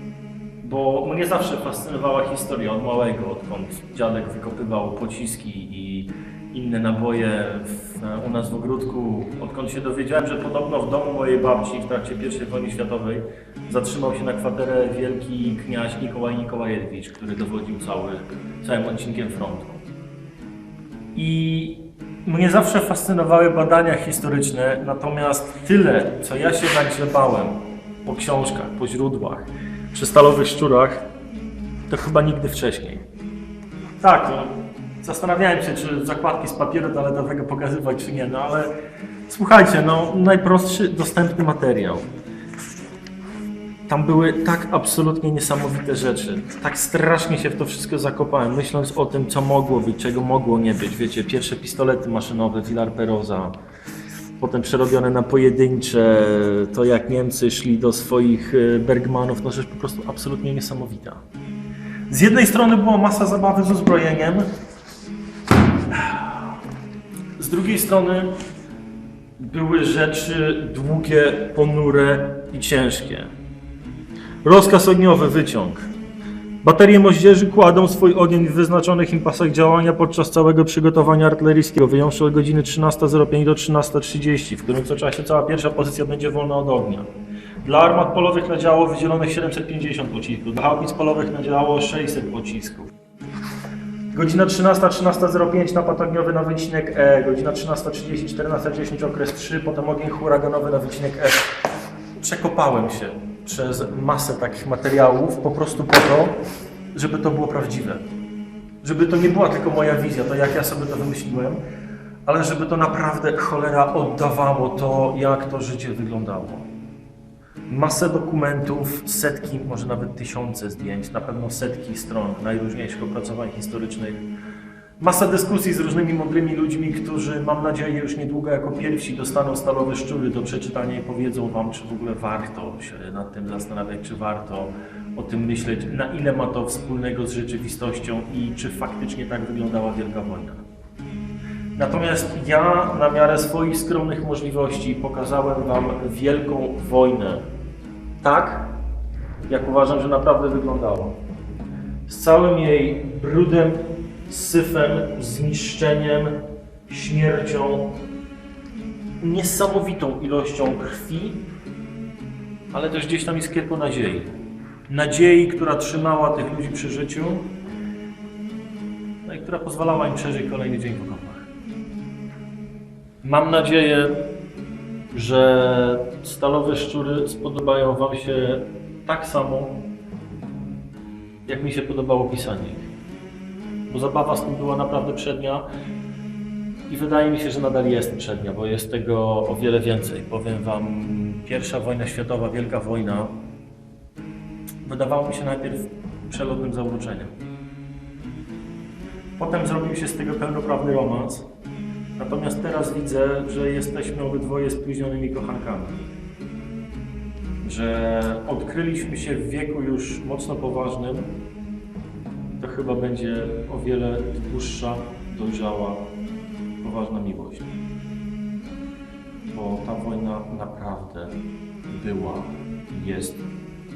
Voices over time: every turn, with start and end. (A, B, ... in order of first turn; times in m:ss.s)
0:00.6-0:19.8 A
0:21.1-0:31.0 A
0:31.9-0:33.0 A
0:34.0-0:38.7 A
0:39.3-0:42.1 A
0:43.9-0:53.6 A
0:54.4-1:01.2 A
1:02.1-1:04.5 A
1:05.9-1:06.4 A
1:07.4-1:08.4 A
1:09.4-1:13.3 A
1:14.4-1:15.9 A
1:16.6-1:27.1 A
1:27.6-1:32.9 A
1:34.1-1:41.5 A
1:42.2-1:46.4 A
1:46.9-1:48.1 A
1:48.8-1:51.6 A
1:52.2-1:56.7 A
1:57.7-2:04.2 A
2:05.0-2:20.6 A
2:21.7-2:27.4 A
2:28.2-2:28.7 A
2:29.5-2:31.2 A
2:32.1-2:38.0 A
2:39.2-2:41.4 A
2:42.7-2:44.3 A
2:44.9-2:47.5 A
2:49.2-2:51.5 A
2:53.2-2:54.2 A
2:55.1-2:59.8 A
3:01.4-3:02.9 A
3:03.9-3:05.6 A
3:06.9-3:13.4 A
3:14.8-3:17.3 A
3:19.4-3:21.5 A
3:22.2-3:26.0 A
3:27.6-3:31.3 A
3:32.6-3:36.1 A
3:36.8-3:37.7 A
3:39.5-3:43.5 A